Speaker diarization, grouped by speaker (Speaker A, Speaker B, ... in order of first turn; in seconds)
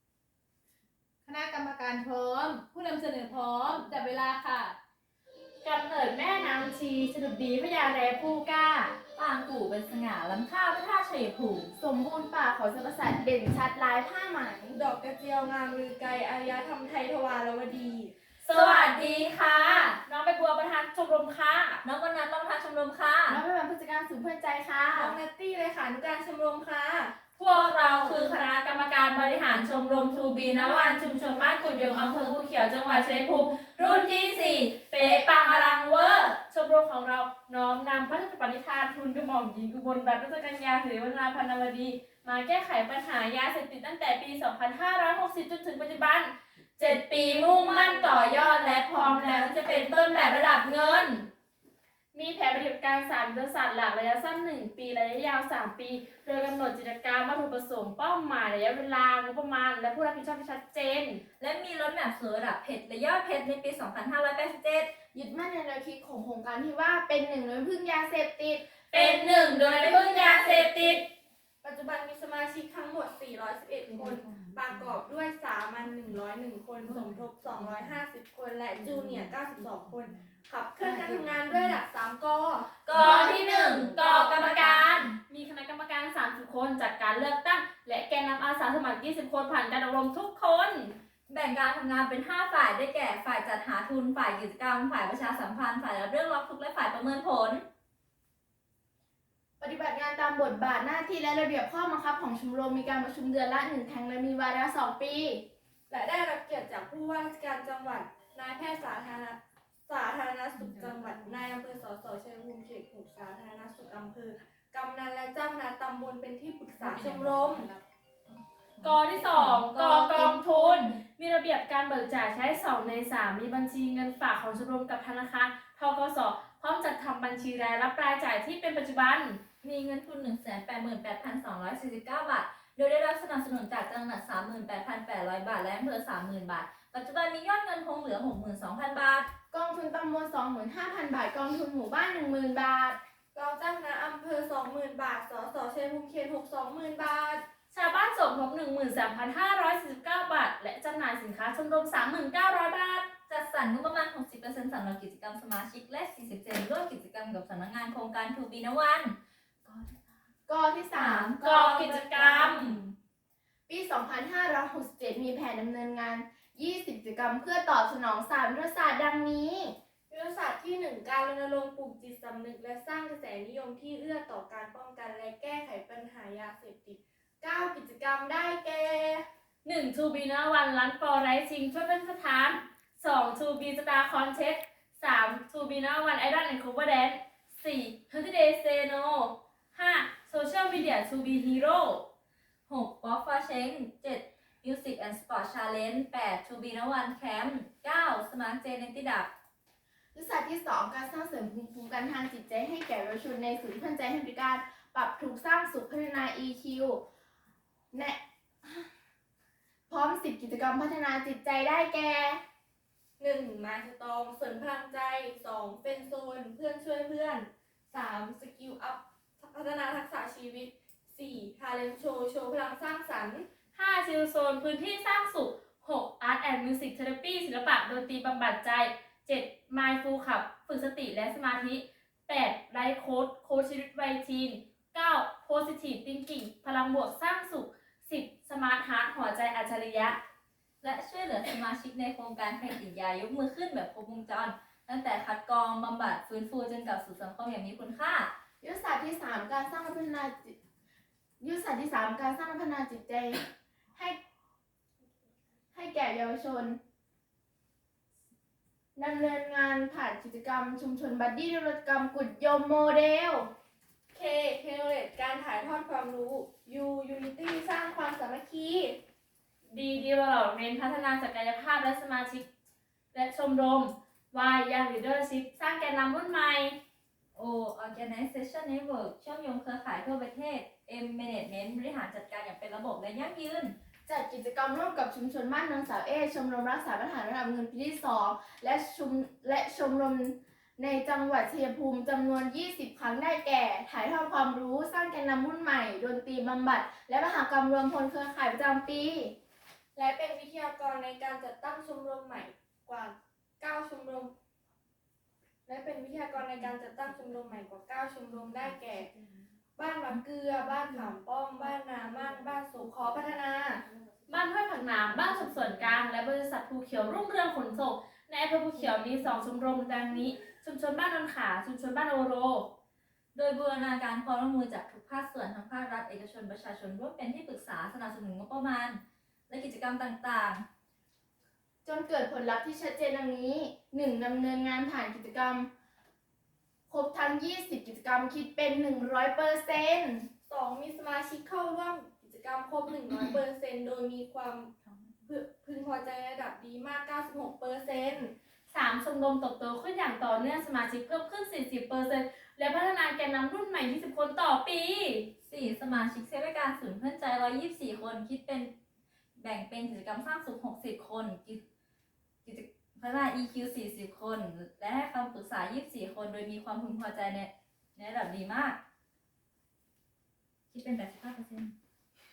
Speaker A: 1.2-4.7, 74.0-74.6, 76.9-78.0, 79.2-79.6, 80.8-81.5, 110.8-111.3, 116.8-117.8
Speaker B: 5.6-9.0, 18.4-21.8, 27.4-51.3, 52.1-61.2, 68.9-71.0, 82.9-90.9, 118.8-129.4, 147.7-153.1, 161.2-162.8, 179.6-192.1, 223.7-240.2, 269.7-272.4, 273.1-276.8, 314.3-322.7, 348.7-355.3
Speaker C: 9.2-11.7, 18.5-20.0, 21.8-23.4, 30.5-31.0, 61.4-64.9, 68.9-70.7, 82.8-85.0, 91.3-97.6, 129.6-139.3, 153.3-159.9, 160.9-161.6, 162.5-162.9, 192.7-199.3, 240.8-248.3, 277.3-283.7, 323.3-330.6, 355.4-358.7, 359.4-361.6, 362.4-368.8, 370.7-371.7
Speaker D: 11.8-14.8, 23.3-25.1, 47.4-49.6, 65.1-68.6, 99.6-105.4, 120.5-120.8, 139.5-143.0, 160.5-162.7, 163.7-169.7, 200.1-207.0, 207.9-208.9, 209.9-212.4, 248.6-250.5, 251.4-254.2, 255.7-256.8, 258.9-263.5, 284.1-299.3, 331.8-335.7, 336.9-340.3
Speaker E: 14.7-18.1, 24.9-27.1, 71.6-83.3, 105.9-117.7, 143.3-147.4, 170.1-179.2, 213.2-223.5, 264.1-269.0, 299.9-304.3, 305.6-309.1, 309.8-313.8, 340.5-344.7, 345.3-348.3